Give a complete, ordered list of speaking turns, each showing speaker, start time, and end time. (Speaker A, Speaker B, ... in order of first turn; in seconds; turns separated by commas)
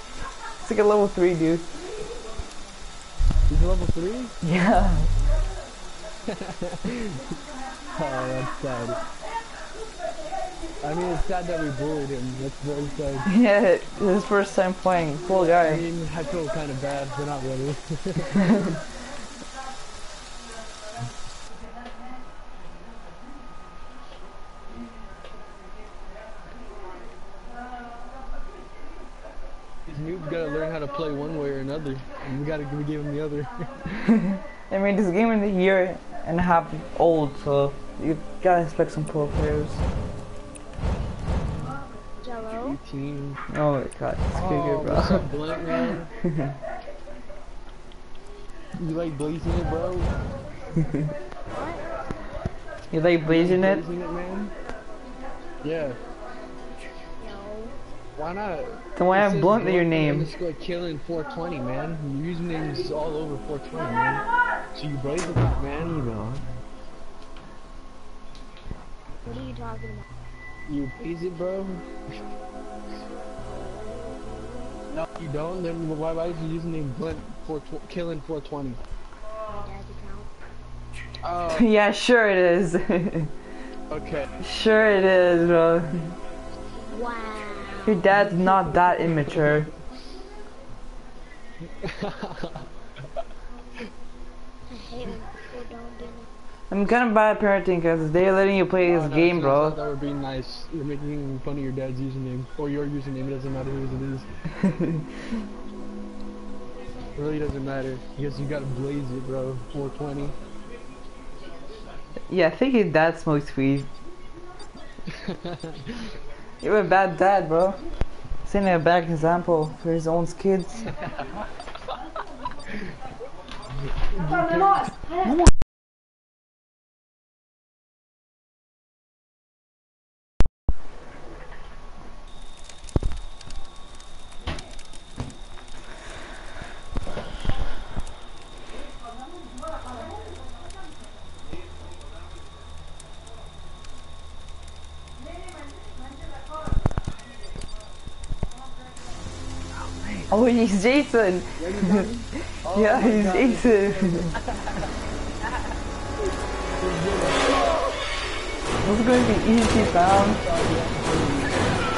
Speaker A: 0.6-1.6, Speaker B: 3.5-4.3, Speaker A: 4.4-5.1, Speaker B: 6.3-7.2, Speaker B: 7.9-9.0, Speaker B: 10.8-13.3, Speaker A: 13.2-15.8, Speaker B: 15.3-18.4, Speaker B: 29.9-34.2, Speaker A: 34.7-39.8, Speaker C: 42.2-42.8, Speaker B: 42.5-43.4, Speaker A: 43.5-45.2, Speaker B: 44.3-46.1, Speaker A: 46.2-46.5, Speaker B: 48.8-50.2, Speaker C: 51.5-52.0, Speaker A: 52.9-53.8, Speaker B: 53.2-54.5, Speaker B: 55.6-56.0, Speaker C: 57.2-57.8, Speaker B: 58.1-66.5, Speaker A: 59.0-60.3, Speaker C: 69.2-70.0, Speaker B: 70.7-71.9, Speaker C: 73.5-74.8, Speaker B: 74.9-78.8, Speaker C: 79.5-80.3, Speaker B: 81.2-81.7, Speaker A: 81.5-83.3, Speaker B: 83.9-84.3, Speaker A: 84.4-86.1, Speaker C: 86.9-88.0, Speaker A: 87.8-89.7, Speaker B: 91.8-92.6, Speaker C: 94.7-96.3, Speaker A: 96.7-99.8, Speaker B: 98.8-104.3, Speaker B: 107.1-110.3, Speaker A: 112.3-113.9, Speaker B: 115.1-116.0, Speaker A: 116.6-117.8, Speaker A: 118.5-121.0, Speaker B: 123.8-124.9, Speaker A: 150.3-154.3, Speaker B: 151.6-154.9, Speaker B: 156.8-157.9, Speaker A: 158.8-160.4, Speaker B: 159.7-161.8